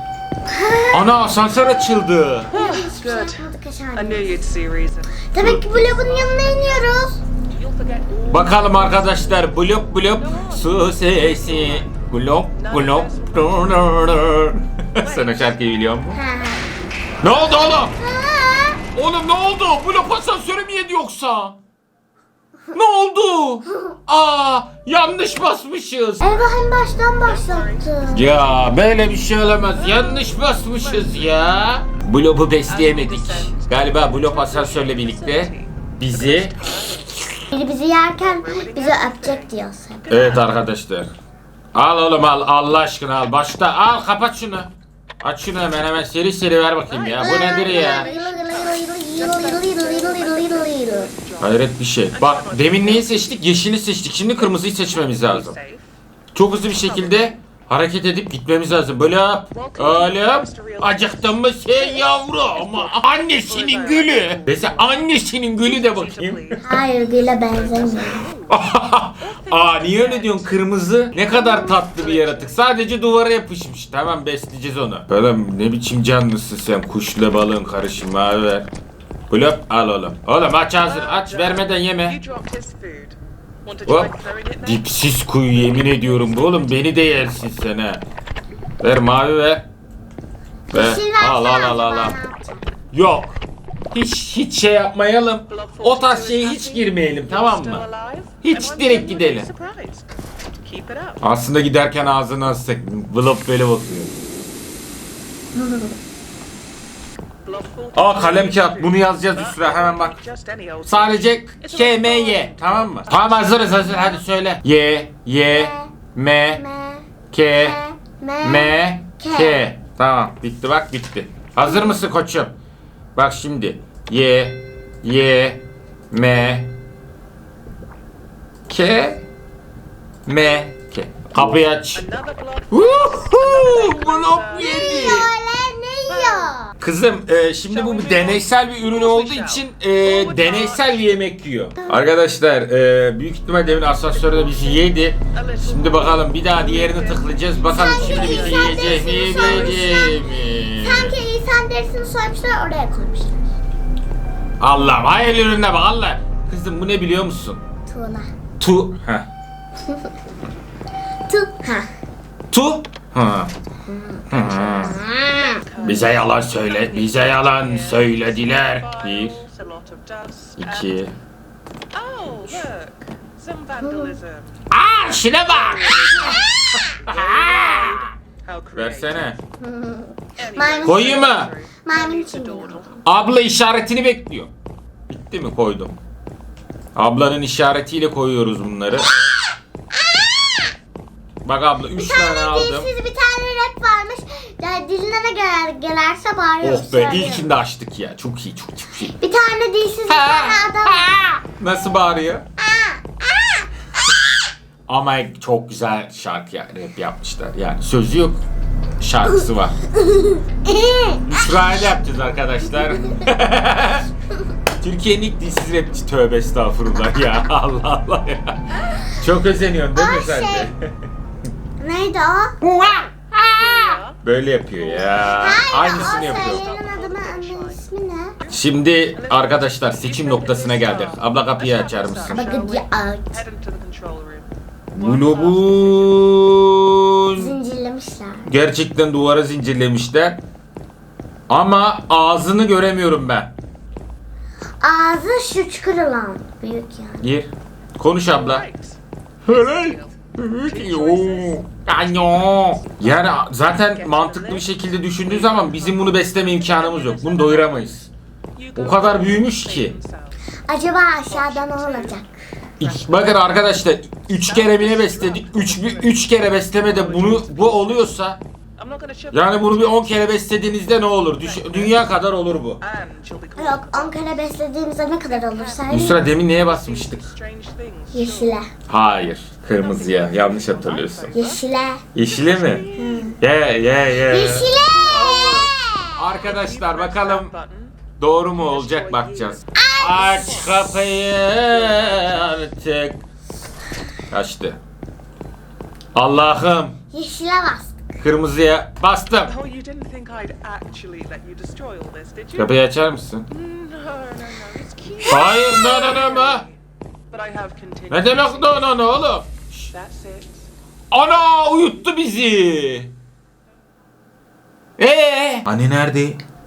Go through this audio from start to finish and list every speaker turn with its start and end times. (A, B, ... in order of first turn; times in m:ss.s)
0:00.5-0:01.2 A
0:00.9-0:02.5 B
0:02.5-0:11.9 C
0:02.5-0:04.5 A
0:05.3-0:07.2 A
0:08.3-0:16.2 B
0:12.6-0:13.9 C
0:15.0-0:15.6 C
0:16.1-0:16.7 A
0:17.2-0:18.0 B
0:17.8-0:18.8 A
0:18.9-0:21.6 B
0:22.7-0:26.6 B
0:26.2-0:28.3 A
0:27.2-0:28.8 C
0:28.1-0:36.6 B
0:29.8-0:31.5 C
0:32.7-0:37.2 C
0:37.5-0:40.1 A
0:38.2-0:40.6 C
0:40.1-0:41.1 B
0:41.7-0:48.1 B
0:46.9-0:53.5 C
0:47.2-0:51.1 A
0:51.4-0:55.6 B
0:54.4-0:55.9 C
0:56.3-1:06.6 B
0:56.6-0:57.3 C
0:59.5-1:08.6 C
1:06.6-1:08.2 A
1:08.5-1:18.7 B
1:09.2-1:10.7 C
1:11.4-1:11.7 A
1:11.7-1:12.8 C
1:19.3-1:22.2 B
1:20.8-1:24.9 C
1:23.9-1:28.0 B
1:25.5-1:26.6 C
1:28.8-1:29.6 B
1:30.7-1:32.6 A
1:30.7-1:32.2 B
1:32.9-1:33.4 B
1:33.9-1:37.8 B
1:35.5-1:40.1 C
1:38.4-1:39.5 B
1:40.6-1:41.2 C
1:41.2-1:44.1 B
1:45.6-1:46.0 A
1:47.4-1:54.1 C
1:48.0-1:50.2 B
1:50.9-1:56.6 B
1:55.5-1:56.0 A
1:56.6-1:59.6 A
1:57.3-1:57.8 B
1:58.4-2:02.5 B
2:01.6-2:02.0 A
2:03.2-2:06.7 B
2:08.7-2:09.2 B
2:10.3-2:12.0 B
2:12.0-2:15.2 C
2:12.7-2:15.3 B
2:14.6-2:16.7 A
2:16.1-2:16.6 C
2:16.8-2:31.2 B
2:17.7-2:21.2 C
2:23.6-2:29.9 C
2:27.7-2:33.5 A
2:34.6-2:37.6 B
2:37.9-2:38.3 A
2:38.6-2:39.3 B
2:41.3-2:41.9 A
2:42.5-2:43.5 B
2:43.9-2:45.6 A
2:44.3-2:45.0 B
2:45.3-2:51.0 C
2:45.8-2:49.4 B
2:50.6-2:51.1 B
2:51.9-2:54.6 C
2:53.8-2:54.2 A
2:54.7-2:58.1 B
2:55.4-2:59.3 C
2:56.5-2:56.8 A
2:58.8-2:59.4 B
2:59.6-3:03.0 A
3:00.4-3:03.0 C
3:00.8-3:01.5 B
3:03.0-3:04.5 B
3:05.1-3:06.0 B
3:07.0-3:09.2 B
3:10.0-3:10.7 A
3:11.4-3:12.9 B
3:12.0-3:17.5 A
3:16.6-3:19.2 B
3:19.2-3:21.2 A
3:20.1-3:22.4 B
3:22.6-3:23.7 A
3:24.9-3:28.4 B
3:29.0-3:29.8 B
3:29.3-3:31.5 A
3:31.3-3:34.1 B
3:34.8-3:38.6 B
3:39.1-3:40.9 B
3:39.9-3:40.7 A
3:41.8-3:42.6 A
3:42.6-3:46.6 B
3:43.4-3:56.3 C
3:45.4-3:48.3 A
3:48.5-3:52.5 B
3:52.3-3:53.4 A
3:54.9-3:57.5 B
3:57.4-3:58.5 A
3:58.4-4:00.4 B
4:01.5-4:03.5 B
4:04.8-4:07.2 A
4:07.2-4:08.7 B
4:08.3-4:18.0 C
4:09.5-4:18.1 B
4:18.6-4:20.4 C
4:18.8-4:20.0 B
4:20.7-4:22.3 A
4:21.3-4:22.2 C
4:22.8-4:23.6 C
4:22.8-4:28.4 B
4:24.3-4:28.2 C
4:28.8-4:30.3 C
4:29.3-4:32.8 B
4:31.4-4:32.1 C
4:32.8-4:34.5 C
4:33.6-4:36.2 A
4:35.2-4:38.6 C
4:35.9-4:37.3 B
4:38.1-4:38.7 A
4:38.9-4:41.3 B
4:39.7-4:41.6 C
4:41.3-4:42.0 A
4:42.1-4:42.8 B
4:42.3-4:43.4 C
4:43.0-4:43.4 A
4:43.4-4:44.8 B
4:44.2-4:46.1 A
4:44.9-4:48.0 C
4:46.2-4:47.5 B
4:48.2-4:53.2 B
4:48.6-4:49.7 C
4:49.8-4:50.7 A
4:51.5-4:52.4 C
4:54.3-4:54.8 B
4:56.1-4:57.0 B
4:57.1-4:58.1 A
4:58.2-4:59.6 B
4:59.4-5:02.7 C
5:02.6-5:03.5 B
5:03.5-5:06.7 C
5:05.2-5:06.6 B
5:05.3-5:06.2 A
5:07.3-5:09.0 C
5:08.1-5:09.9 B
5:09.9-5:10.7 C
5:11.1-5:13.1 B
5:15.0-5:16.4 B